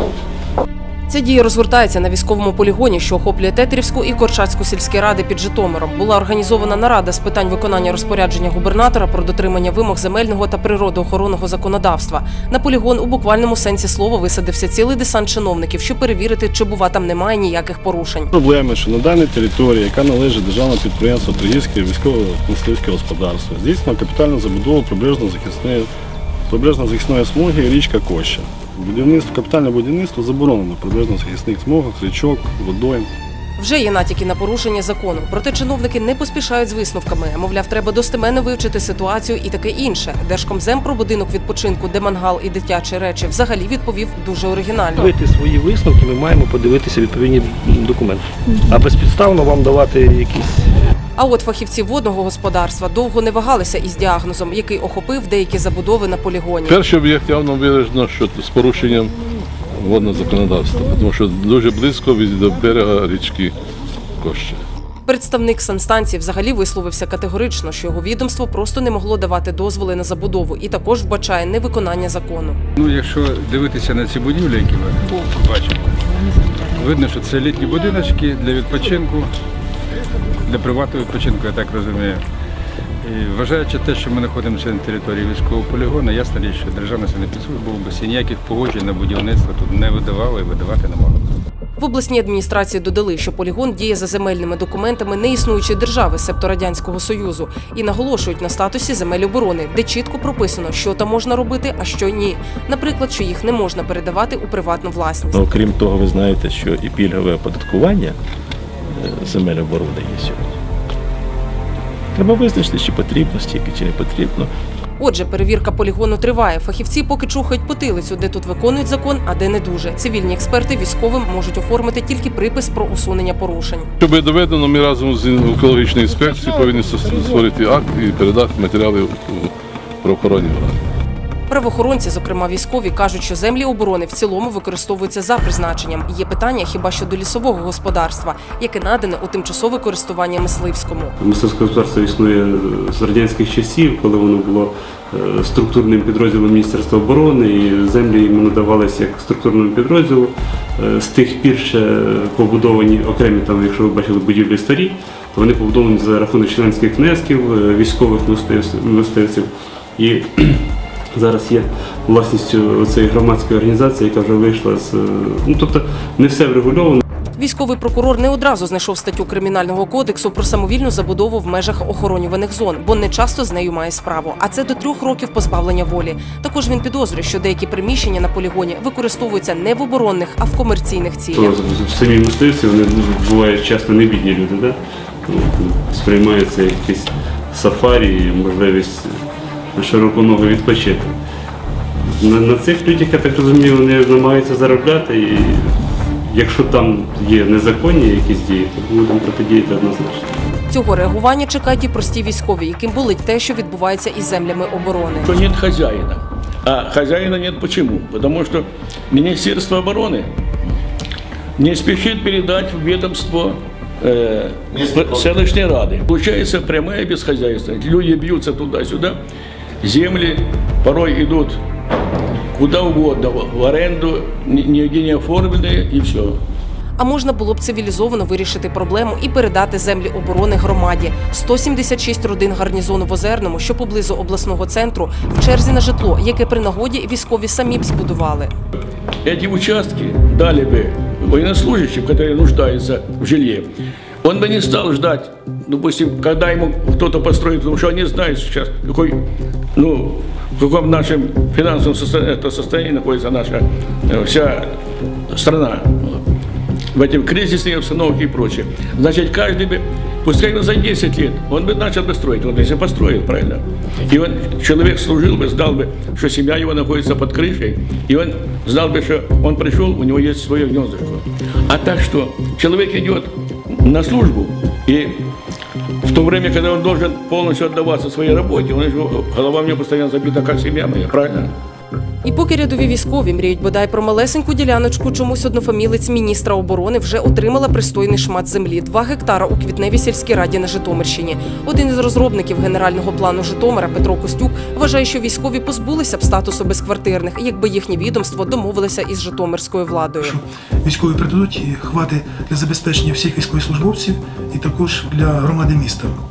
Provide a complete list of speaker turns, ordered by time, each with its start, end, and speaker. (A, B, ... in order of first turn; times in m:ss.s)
0:01.1-0:18.3 A
0:18.3-0:25.9 B
0:26.5-0:33.1 B
0:33.6-0:45.1 A
0:45.0-0:50.5 C
0:51.2-0:56.8 A
0:56.7-0:59.1 D
0:59.8-1:03.5 D
1:04.2-1:04.6 D
1:05.1-1:12.6 A
1:12.8-1:19.3 E
1:20.5-1:22.2 E
1:23.0-1:31.2 E
1:31.8-1:45.5 A
1:45.4-1:48.2 F
1:48.9-1:50.5 F
1:52.2-1:54.5 F
1:55.0-2:03.9 A
2:04.0-2:10.8 D
2:11.5-2:21.2 A
2:21.2-2:40.6 G
2:41.2-2:47.0 G
2:47.4-3:01.5 A
3:01.3-3:09.1 G
3:09.8-3:11.1 G
3:12.2-3:15.7 G
3:16.3-3:20.3 G
3:20.7-3:25.3 A
3:25.2-3:30.3 H
3:31.6-3:39.2 H
3:39.8-3:41.6 H
3:42.5-3:46.4 H
3:47.0-3:58.5 A
3:59.2-4:03.7 H
4:04.2-4:09.2 H
4:09.8-4:14.8 H
4:15.3-4:16.2 H
4:16.9-4:33.3 H
4:33.8-4:35.2 H
4:36.0-4:41.5 H
4:42.2-5:00.4 A
5:00.2-5:06.2 I